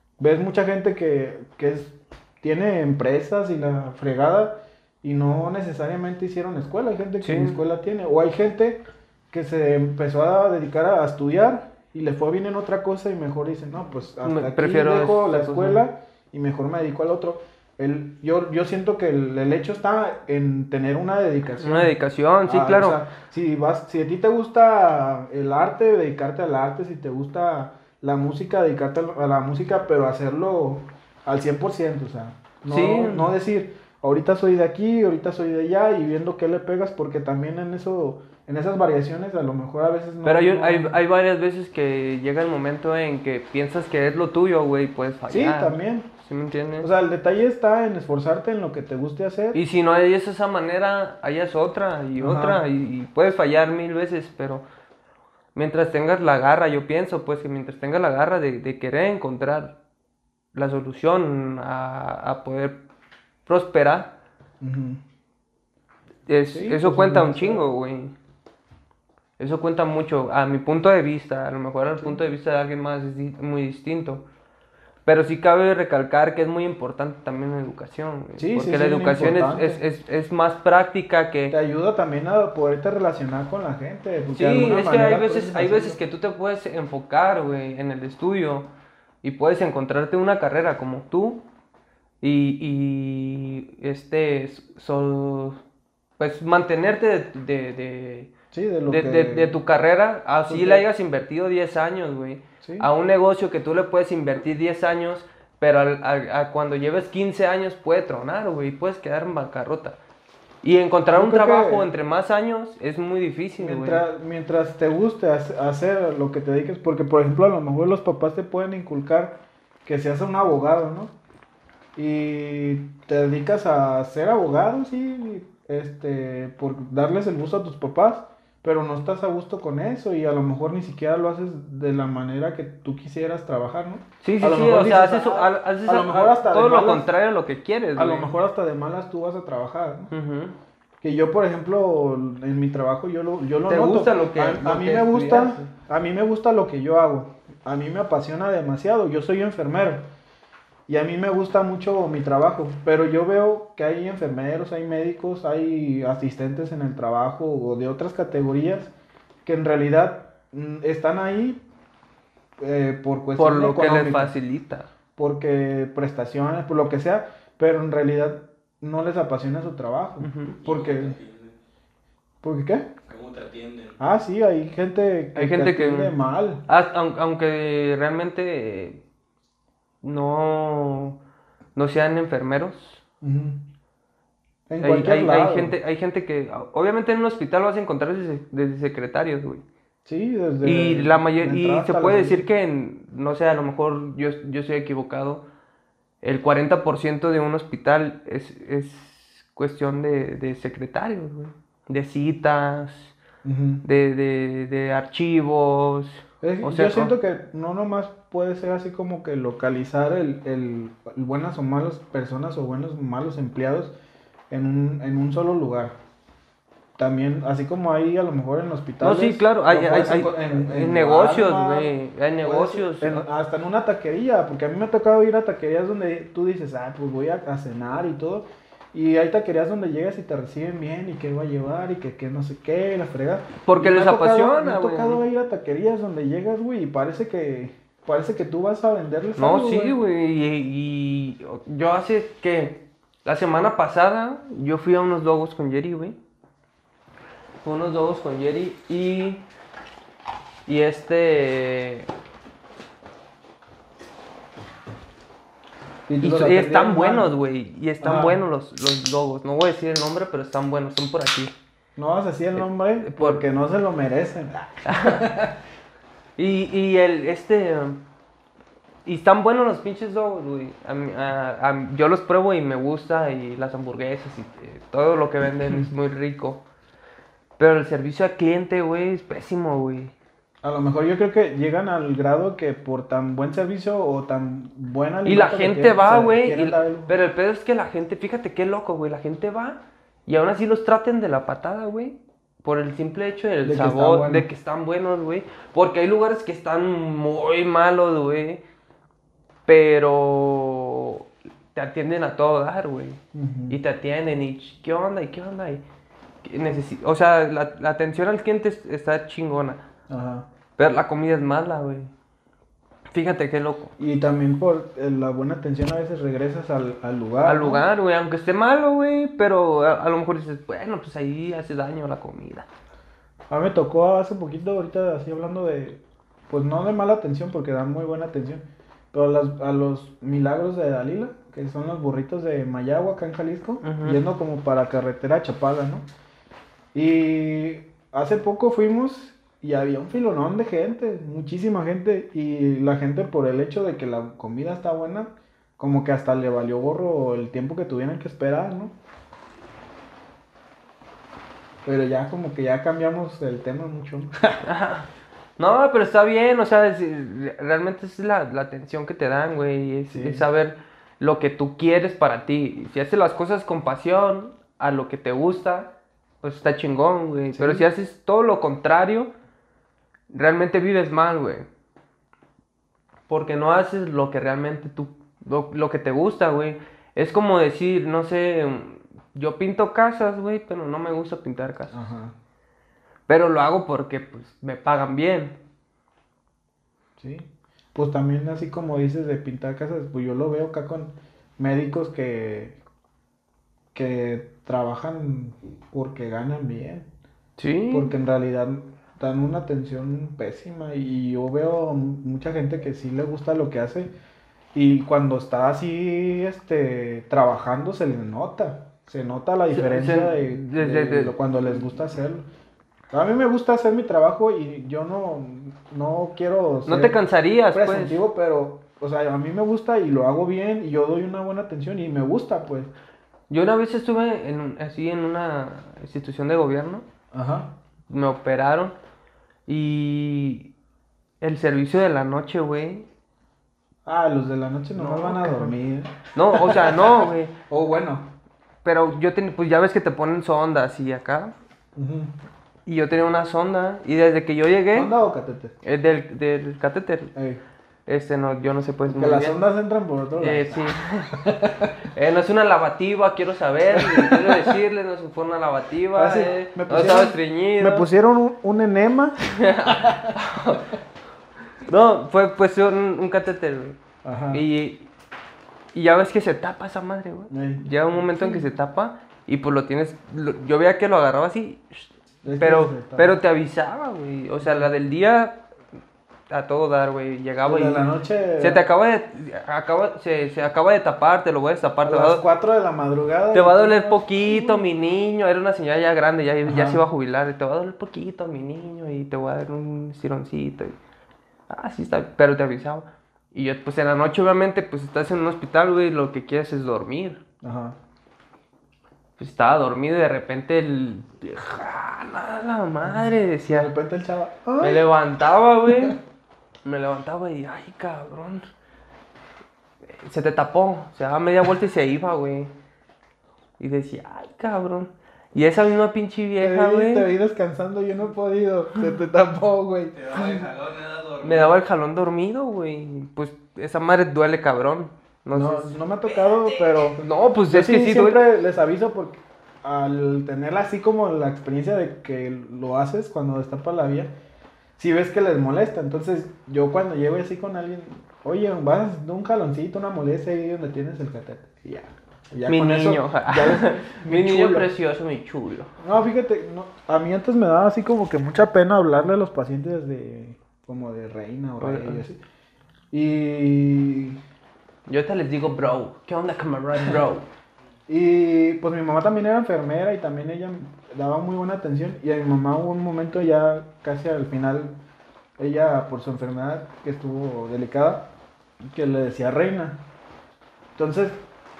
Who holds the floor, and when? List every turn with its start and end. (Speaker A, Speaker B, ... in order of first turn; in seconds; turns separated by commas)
Speaker A: 0.2-21.9, Speaker B: 7.2-7.6, Speaker B: 14.2-15.8, Speaker B: 21.6-23.0, Speaker A: 22.4-40.9, Speaker B: 32.7-33.3, Speaker B: 40.2-46.9, Speaker A: 45.3-46.1, Speaker A: 46.8-49.6, Speaker B: 49.5-54.6, Speaker A: 52.2-52.6, Speaker B: 55.5-59.7, Speaker B: 60.5-62.8, Speaker B: 63.5-64.1, Speaker A: 64.6-65.0, Speaker B: 66.3-68.1, Speaker A: 66.5-67.7, Speaker B: 69.4-74.2, Speaker B: 75.0-81.5, Speaker A: 78.4-79.8, Speaker A: 81.5-86.0, Speaker B: 84.3-88.7, Speaker B: 89.2-91.4, Speaker B: 92.2-95.6, Speaker B: 96.2-98.3, Speaker A: 98.5-99.5, Speaker B: 98.9-110.0, Speaker A: 100.5-100.8, Speaker A: 102.6-102.9, Speaker B: 110.6-114.0, Speaker A: 111.1-111.9, Speaker A: 113.6-121.1, Speaker A: 121.9-137.1, Speaker B: 134.2-138.3, Speaker A: 138.0-140.1, Speaker B: 140.1-140.5, Speaker A: 141.0-150.1, Speaker B: 143.7-145.7, Speaker A: 150.9-158.9, Speaker A: 159.4-161.6, Speaker A: 162.6-164.3, Speaker B: 163.4-164.9, Speaker A: 165.2-171.2, Speaker B: 170.2-170.6, Speaker C: 170.6-171.5, Speaker A: 172.4-172.9, Speaker C: 173.1-174.0, Speaker A: 174.0-176.6, Speaker B: 175.3-176.1, Speaker B: 176.7-179.0, Speaker B: 180.0-181.2, Speaker B: 181.8-183.0, Speaker A: 183.2-183.7, Speaker A: 184.7-185.7, Speaker B: 184.8-189.6, Speaker A: 190.1-192.4, Speaker B: 190.6-195.4, Speaker B: 196.2-203.1, Speaker A: 203.4-203.8, Speaker B: 203.8-207.1, Speaker A: 206.4-213.9, Speaker A: 214.5-215.9, Speaker A: 217.0-240.0, Speaker B: 219.0-223.2, Speaker B: 233.6-235.2, Speaker B: 239.4-246.2, Speaker B: 247.6-249.4, Speaker B: 250.7-252.1, Speaker A: 256.1-257.3, Speaker B: 256.2-261.5, Speaker A: 258.0-258.4, Speaker A: 262.0-265.6, Speaker B: 262.6-263.4, Speaker B: 264.9-265.2, Speaker B: 266.4-268.0, Speaker B: 269.0-276.6, Speaker B: 277.6-280.1, Speaker A: 280.6-287.1, Speaker B: 285.2-298.6, Speaker A: 293.6-294.5, Speaker B: 299.6-305.8, Speaker A: 303.3-303.8, Speaker B: 306.4-309.8, Speaker A: 310.1-310.5, Speaker B: 310.8-312.1, Speaker B: 313.1-313.9, Speaker A: 314.0-317.8, Speaker B: 317.4-322.7, Speaker A: 323.5-336.0, Speaker B: 333.8-334.2, Speaker A: 336.9-348.9, Speaker A: 351.8-354.6, Speaker B: 354.6-355.1, Speaker B: 355.6-365.9, Speaker A: 360.1-360.4, Speaker B: 366.4-369.3, Speaker A: 367.5-367.9, Speaker B: 370.3-371.7, Speaker B: 373.3-381.9, Speaker A: 381.9-382.3, Speaker B: 383.3-385.6, Speaker A: 387.2-392.8, Speaker A: 393.9-397.1, Speaker B: 397.6-398.1, Speaker A: 397.9-404.1, Speaker A: 404.7-412.5, Speaker B: 409.7-411.3, Speaker A: 413.1-417.2, Speaker B: 416.9-418.2, Speaker A: 417.7-422.9, Speaker B: 423.5-427.0, Speaker A: 427.3-427.7, Speaker B: 428.1-428.9, Speaker B: 429.7-430.7, Speaker B: 431.4-433.1, Speaker A: 434.1-438.3, Speaker B: 434.9-435.8, Speaker B: 436.3-437.5, Speaker B: 438.8-441.5, Speaker A: 441.9-442.3, Speaker B: 442.9-445.1, Speaker A: 444.9-445.7, Speaker B: 445.8-447.3, Speaker A: 447.3-447.6, Speaker B: 448.1-449.6, Speaker A: 449.1-451.9, Speaker B: 450.4-451.3, Speaker B: 452.0-458.1, Speaker A: 453.9-454.8, Speaker A: 456.1-459.4, Speaker B: 459.5-460.9, Speaker A: 459.9-460.3, Speaker B: 461.9-464.0, Speaker A: 464.2-464.6, Speaker B: 464.5-465.1, Speaker B: 465.9-475.6, Speaker A: 467.5-468.7, Speaker A: 472.4-473.4, Speaker B: 476.5-478.0, Speaker A: 477.6-478.8, Speaker B: 478.6-482.4, Speaker A: 482.0-484.9, Speaker B: 483.5-490.9, Speaker A: 486.7-487.0, Speaker B: 491.7-497.4, Speaker A: 497.6-498.0, Speaker B: 499.4-503.9, Speaker A: 503.1-505.1, Speaker B: 504.8-506.2, Speaker B: 506.8-508.7, Speaker B: 510.2-512.7, Speaker B: 513.8-517.3, Speaker A: 516.6-520.6, Speaker C: 520.1-521.8, Speaker B: 521.4-526.0, Speaker A: 525.5-527.2, Speaker C: 526.3-526.9, Speaker B: 527.1-528.4, Speaker A: 527.7-534.3, Speaker A: 535.0-544.9, Speaker B: 542.7-545.9, Speaker A: 546.0-552.4, Speaker B: 551.8-552.2, Speaker A: 553.1-554.4, Speaker B: 555.1-557.5, Speaker A: 558.1-565.0, Speaker A: 565.6-568.2, Speaker A: 568.8-570.0, Speaker A: 571.0-571.4